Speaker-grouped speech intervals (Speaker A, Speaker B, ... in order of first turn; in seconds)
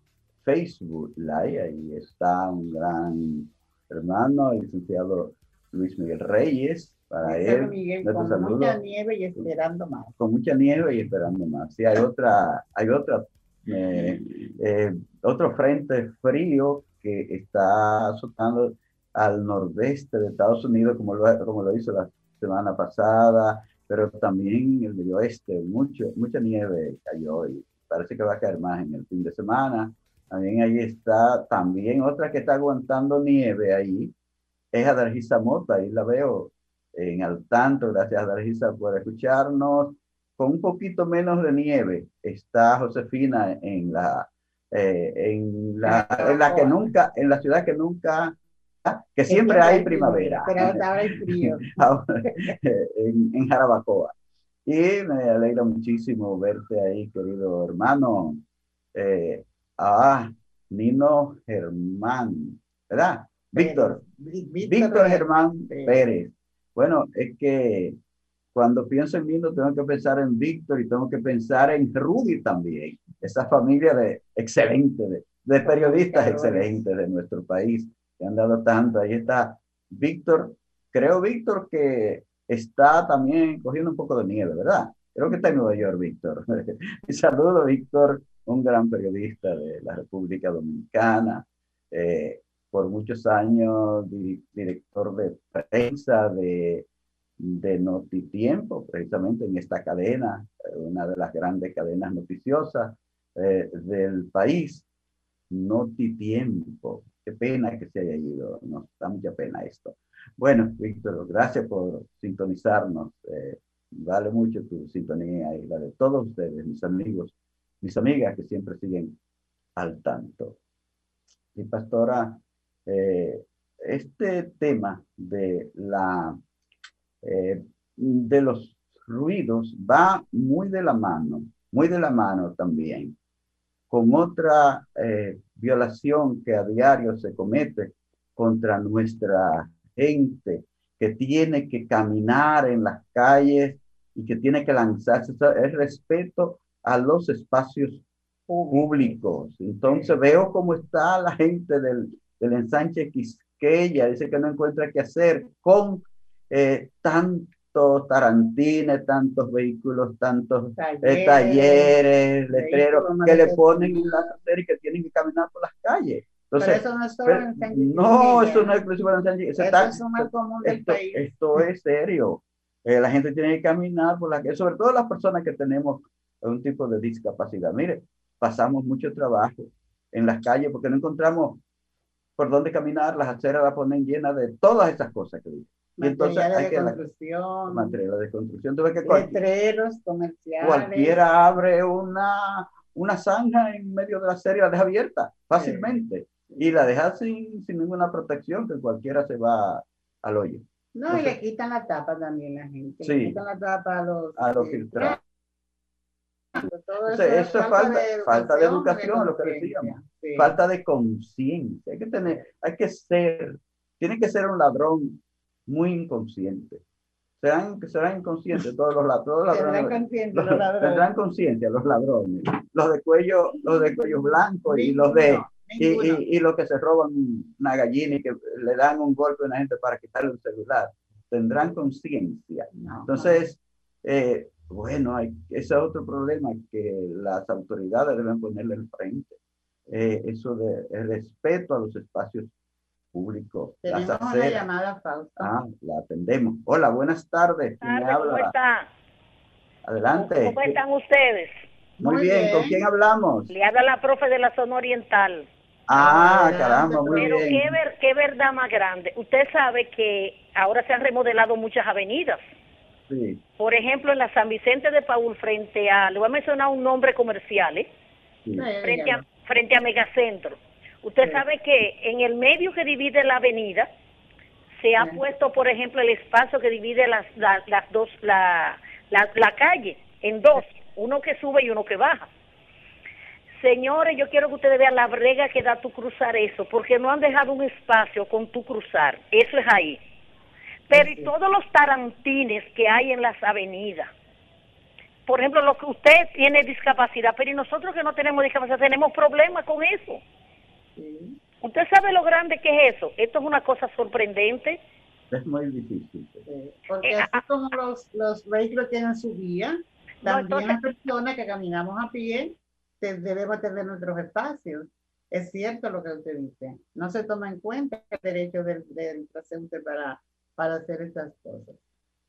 Speaker A: 0.4-8.8, 10.2-34.1, 34.7-54.1, 54.7-58.4, 58.9-64.0, 64.6-68.0, 68.5-96.9, 97.4-104.9, 105.5-119.2, 119.8-120.6, 121.5-126.4, 127.2-133.2, 133.9-148.0, 148.7-181.6, 182.4-187.0, 187.7-189.4, 190.6-201.3, 203.0-203.4, 204.4-205.2, 207.1-216.8, 217.4-239.4, 239.9-242.5, 243.1-244.7, 245.4-248.5, 249.8-250.8, 252.0-253.5, 255.9-257.8, 263.1-263.4, 305.3-306.5
Speaker B: 7.2-10.1, 45.8-46.9, 49.3-52.6, 63.5-66.0, 75.6-76.8, 148.5-149.2, 160.8-162.0, 162.5-164.3, 166.6-168.8, 169.6-171.6, 186.0-188.0, 189.0-191.2, 195.6-195.9, 200.9-205.2, 206.6-210.5, 219.5-221.1, 223.6-226.2, 232.7-233.4, 243.8-245.5, 252.0-252.8, 255.9-257.5, 268.6-269.2, 290.9-291.3, 301.0-301.4, 306.5-321.8
Speaker C: 247.8-248.9, 250.2-251.6, 253.5-255.5, 257.1-262.4, 263.6-267.9, 268.8-273.9, 274.8-282.3, 283.6-290.0, 290.9-294.1, 295.3-300.2, 301.6-304.8, 307.0-307.4, 310.2-310.8